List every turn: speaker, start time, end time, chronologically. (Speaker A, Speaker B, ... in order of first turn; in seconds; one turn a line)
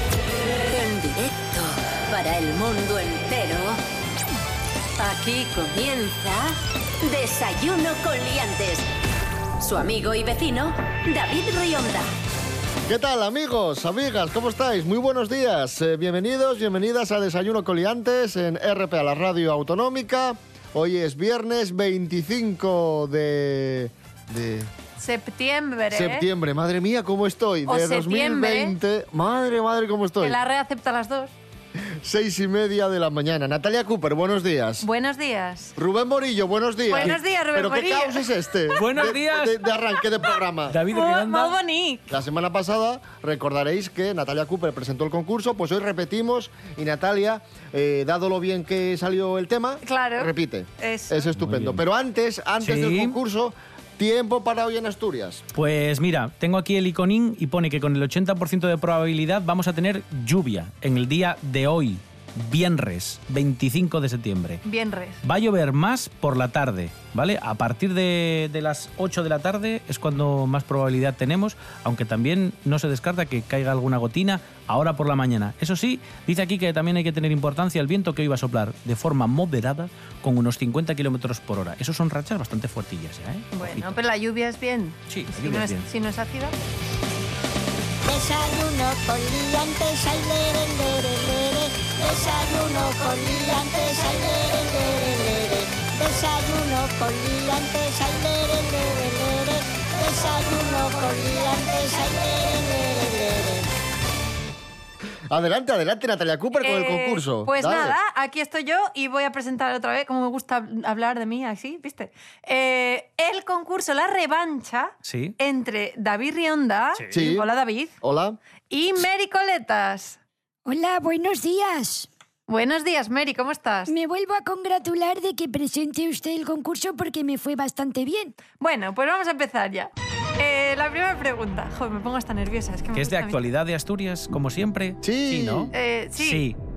Speaker A: 0.6-3.8
Speaker A: 5.0-8.9
Speaker A: 9.6-12.1
Speaker B: 12.8-24.7
Speaker C: 25.0-26.3
Speaker B: 25.9-30.4
Speaker C: 27.6-28.8
Speaker C: 30.2-31.4
Speaker B: 31.8-34.9
Speaker C: 34.8-35.7
Speaker B: 35.8-40.8
Speaker C: 36.9-39.1
Speaker D: 38.8-39.6
Speaker D: 40.7-41.6
Speaker C: 40.9-42.2
Speaker B: 42.1-55.4
Speaker C: 49.8-51.3
Speaker D: 51.3-51.8
Speaker D: 52.6-53.2
Speaker D: 55.5-64.6
Speaker C: 64.6-65.2
Speaker D: 65.2-84.0
Speaker C: 83.5-86.5
Speaker D: 85.1-85.9
Speaker E: 88.0-103.7
Speaker B: 105.3-108.0
Speaker C: 106.6-117.9
Speaker D: 115.0-115.3
Speaker B: 117.1-117.5
Speaker B: 118.0-118.4
Speaker C: 118.7-120.2
Speaker F: 120.7-122.1
Speaker C: 122.5-123.9
Speaker F: 123.9-128.3
Speaker C: 128.6-133.4
Speaker D: 132.9-136.6
Speaker B: 135.0-135.7
Speaker C: 135.7-136.5